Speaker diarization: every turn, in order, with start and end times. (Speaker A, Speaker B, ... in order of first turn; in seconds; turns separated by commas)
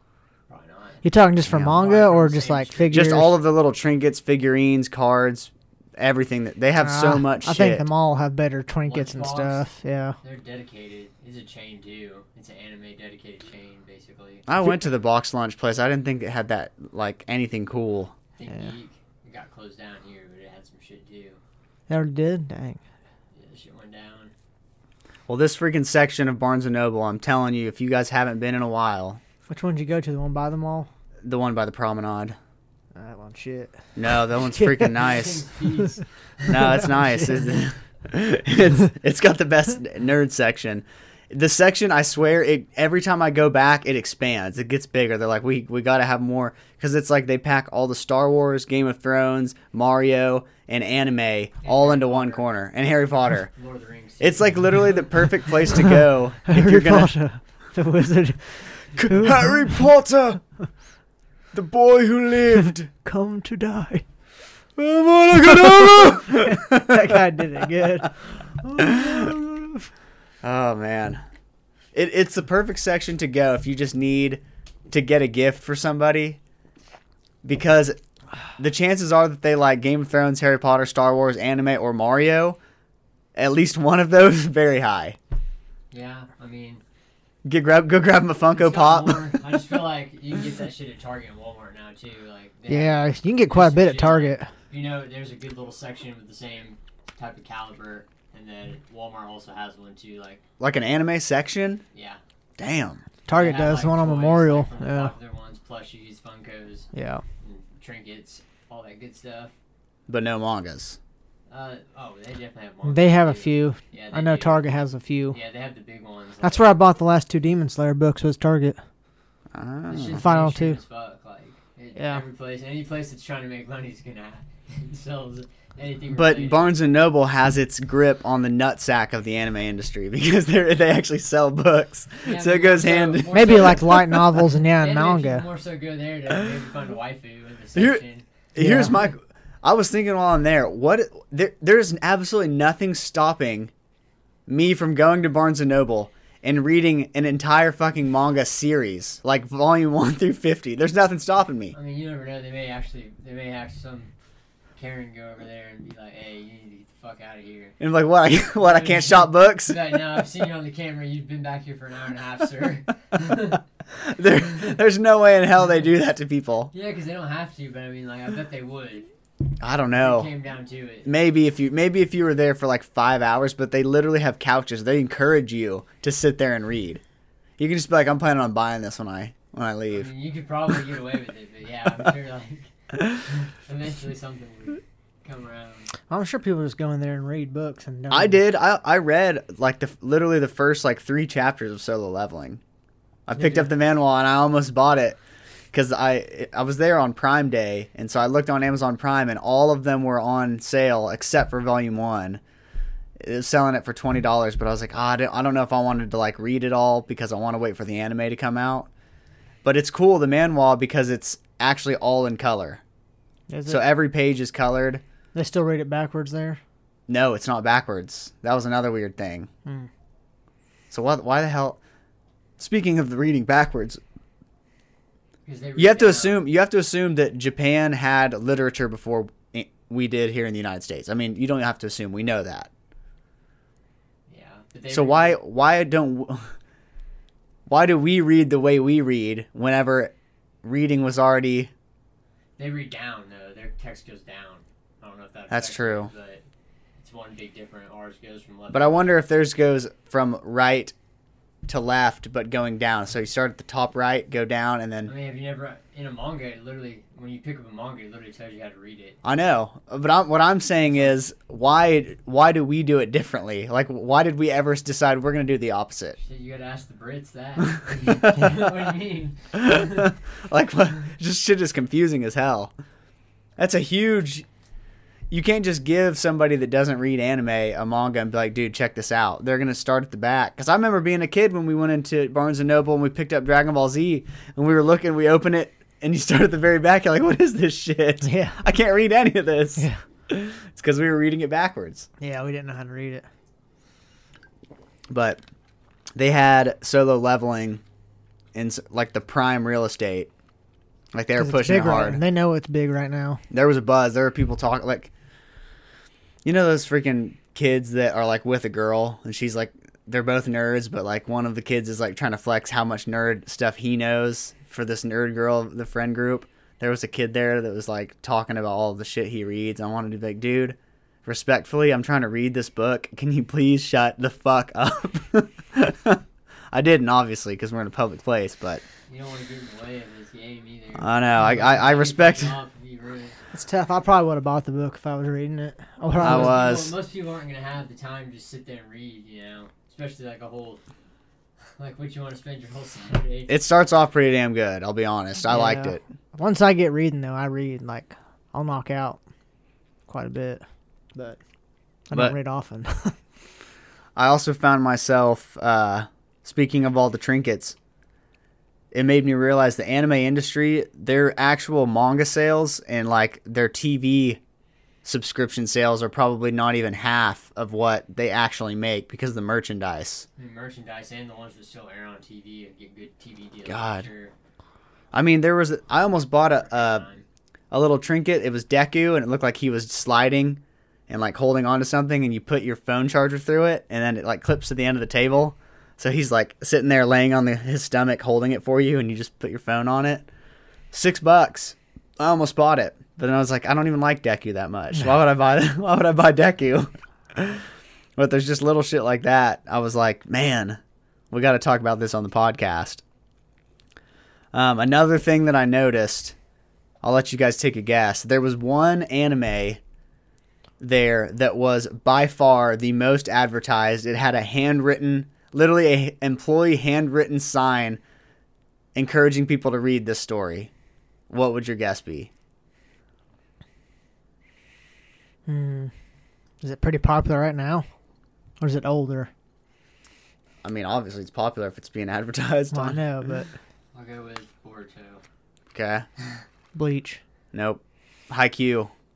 Speaker A: 0.5-1.0, Speaker B: 1.0-3.3, Speaker C: 1.4-1.8, Speaker A: 1.6-3.1, Speaker C: 2.9-7.9, Speaker B: 6.8-10.2, Speaker A: 8.9-9.7, Speaker A: 10.2-14.4, Speaker C: 14.5-18.1, Speaker A: 18.4-21.4, Speaker B: 21.9-22.8, Speaker A: 23.3-24.3, Speaker C: 25.3-29.2, Speaker B: 29.5-30.9, Speaker C: 31.2-32.4, Speaker B: 32.9-35.0, Speaker C: 34.0-35.4, Speaker A: 35.0-36.6, Speaker B: 36.5-37.5, Speaker C: 36.5-53.5, Speaker A: 51.6-52.4, Speaker A: 53.5-55.8, Speaker C: 54.2-57.1, Speaker B: 56.5-59.7, Speaker C: 58.9-60.4, Speaker C: 61.5-62.9, Speaker B: 63.0-64.0, Speaker C: 64.8-67.2, Speaker B: 65.5-69.7, Speaker C: 68.8-69.3, Speaker C: 70.4-71.2, Speaker C: 71.9-76.4, Speaker C: 77.4-78.0, Speaker C: 78.6-82.6, Speaker C: 83.3-85.2, Speaker A: 85.9-86.8, Speaker C: 87.4-89.4, Speaker A: 88.5-100.4, Speaker B: 92.7-94.5, Speaker C: 100.6-101.8, Speaker A: 101.9-102.2, Speaker C: 102.6-103.0, Speaker B: 103.2-105.1, Speaker A: 103.3-106.9, Speaker B: 106.9-107.2, Speaker A: 107.4-109.5, Speaker C: 110.1-111.0, Speaker A: 111.5-114.7, Speaker B: 112.8-115.4, Speaker A: 115.3-116.7, Speaker B: 116.4-118.8, Speaker C: 119.5-120.2, Speaker A: 119.9-126.7, Speaker B: 120.2-120.8, Speaker B: 122.0-122.2, Speaker C: 126.1-134.4, Speaker A: 132.2-134.0, Speaker B: 133.3-135.4, Speaker A: 134.8-138.3, Speaker C: 137.8-138.0, Speaker C: 138.5-143.7, Speaker B: 138.6-139.0, Speaker C: 144.5-151.7, Speaker A: 151.7-154.1, Speaker A: 154.8-157.8, Speaker C: 157.8-159.8, Speaker A: 158.6-163.6, Speaker C: 164.0-166.7, Speaker A: 164.4-164.8, Speaker A: 166.7-169.1, Speaker C: 169.6-170.3, Speaker A: 169.9-171.1, Speaker C: 171.0-177.0, Speaker C: 177.6-180.1, Speaker A: 179.9-185.9, Speaker B: 186.1-188.4, Speaker C: 188.1-192.6, Speaker C: 193.3-195.2, Speaker A: 193.4-193.6, Speaker C: 195.7-202.4, Speaker C: 203.2-208.9, Speaker C: 209.6-212.8, Speaker B: 213.5-213.8, Speaker C: 213.7-215.0, Speaker B: 215.3-216.6, Speaker C: 217.1-219.5, Speaker C: 220.9-221.8, Speaker C: 222.6-224.0, Speaker A: 225.4-226.4, Speaker C: 225.8-232.7, Speaker A: 234.3-235.4, Speaker C: 234.9-236.5, Speaker C: 237.7-241.7, Speaker A: 242.6-246.4, Speaker C: 245.5-246.1, Speaker A: 247.0-249.1, Speaker C: 248.7-250.9, Speaker C: 251.7-255.1, Speaker A: 255.0-259.2, Speaker C: 259.2-266.2, Speaker A: 266.2-270.1, Speaker C: 269.6-272.7, Speaker C: 273.6-274.4, Speaker C: 275.3-292.1, Speaker B: 288.2-288.6, Speaker B: 292.2-293.2, Speaker C: 295.1-295.4, Speaker C: 296.1-297.8, Speaker C: 298.5-300.3, Speaker C: 301.1-302.2, Speaker B: 301.4-303.4, Speaker C: 303.5-305.1, Speaker C: 306.4-328.8, Speaker A: 329.1-333.4, Speaker C: 331.0-332.5, Speaker B: 333.5-336.6, Speaker A: 336.2-340.8, Speaker C: 336.2-336.9, Speaker A: 341.8-343.5, Speaker C: 343.5-346.0, Speaker B: 345.5-349.2, Speaker B: 350.1-350.6, Speaker B: 352.1-353.1, Speaker C: 354.1-357.8, Speaker C: 358.9-364.4, Speaker C: 365.0-370.2, Speaker A: 370.4-374.3, Speaker C: 373.6-374.1, Speaker C: 375.1-377.1, Speaker A: 376.6-377.2, Speaker C: 377.7-390.3, Speaker C: 390.9-397.6, Speaker C: 398.2-400.8, Speaker C: 401.3-403.0, Speaker C: 404.5-406.4, Speaker C: 407.0-409.8, Speaker C: 410.8-418.0, Speaker C: 418.9-420.7, Speaker C: 421.3-422.3, Speaker B: 425.5-425.9, Speaker B: 426.6-427.8, Speaker B: 428.6-429.3, Speaker C: 430.6-433.0, Speaker B: 432.7-433.5, Speaker A: 433.9-435.2, Speaker C: 435.7-436.1, Speaker B: 436.7-437.2, Speaker C: 437.5-438.9